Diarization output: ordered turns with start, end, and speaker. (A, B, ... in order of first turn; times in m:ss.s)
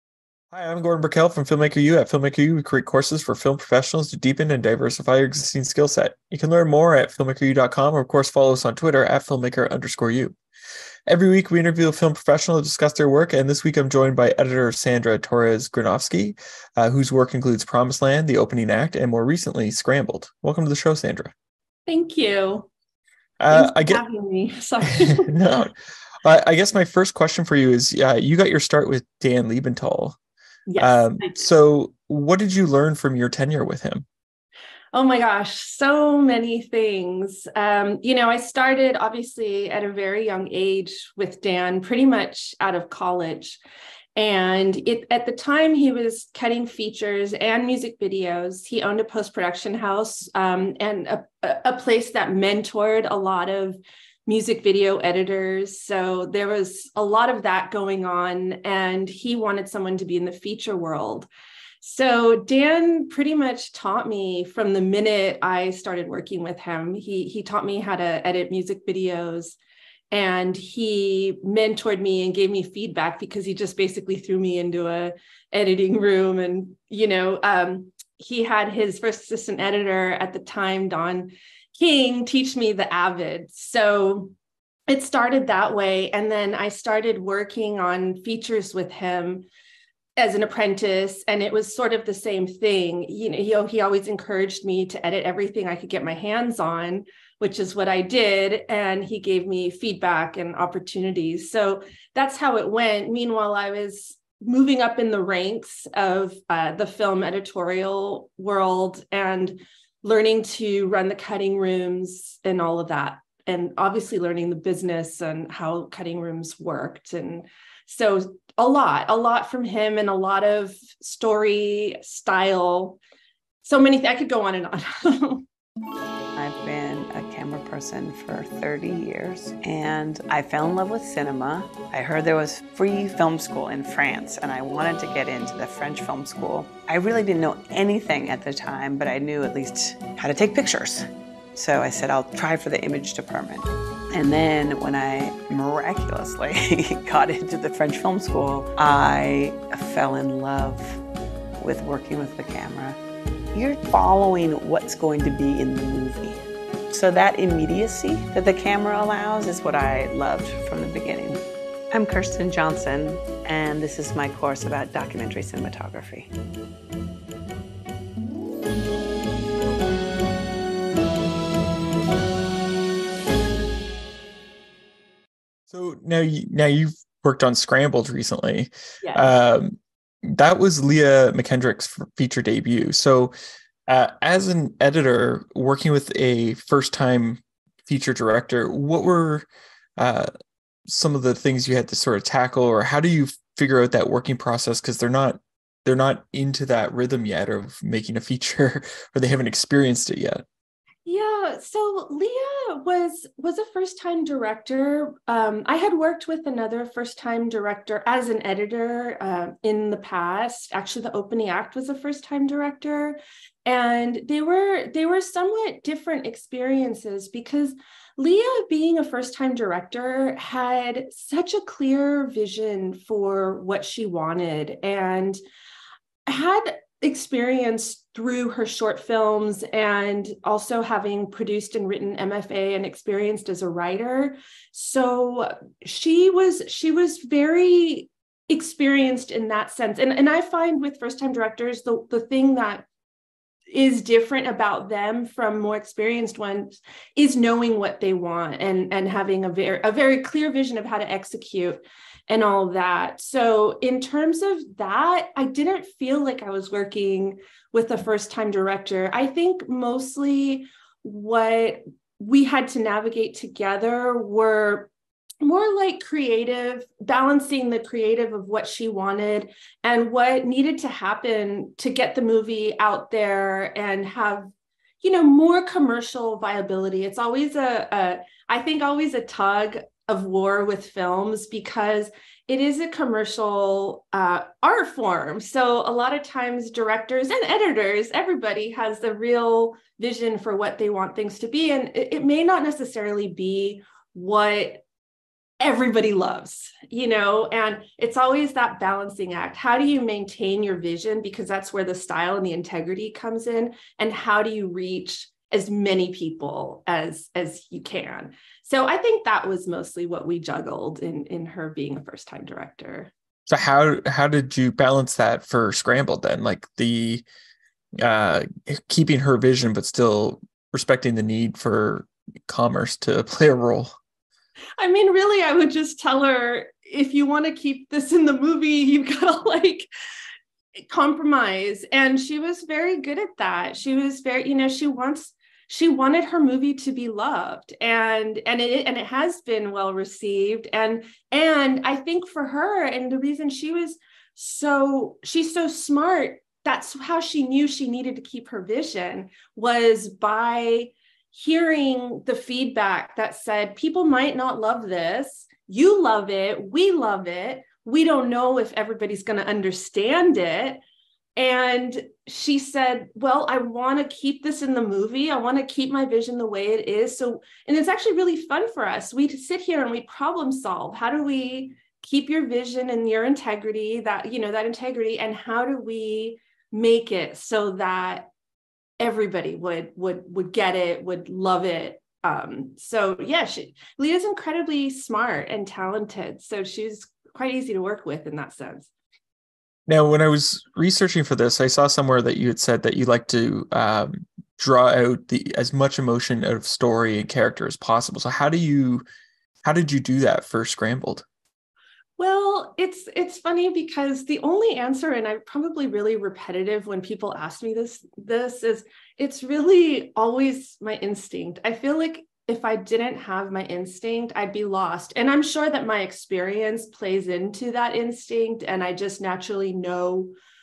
0:00.5-0:10.4 A
0:11.1-0:21.3 A
0:21.9-0:22.7 B
0:23.4-0:24.0 A
0:23.5-0:25.3 B
0:25.0-0:25.7 A
0:26.2-0:30.2 A
0:30.7-0:31.5 B
0:30.8-0:34.1 A
0:34.9-0:43.6 B
0:44.2-1:01.3 B
1:01.8-1:09.6 B
1:10.1-1:24.3 B
1:24.9-1:29.5 B
1:30.2-2:03.0 B
2:03.6-2:05.4 B
2:06.4-2:31.0 C
2:31.6-2:33.0 C
2:33.5-2:46.3 C
2:55.7-3:03.3 A
2:59.0-2:59.4 B
3:03.9-3:09.5 A
3:10.0-3:10.3 A
3:10.9-3:20.4 A
3:21.1-3:45.4 B
3:46.3-4:02.9 B
4:03.7-4:24.9 B
4:25.4-4:54.8 B
4:55.6-5:13.1 B
5:13.5-5:17.2 A
5:18.0-5:23.9 A
5:24.8-5:29.9 B
5:30.9-6:00.8 B
6:01.4-6:18.3 B
6:19.0-6:28.9 B
6:29.9-6:39.0 A
6:39.6-6:41.2 A
6:42.2-7:00.3 B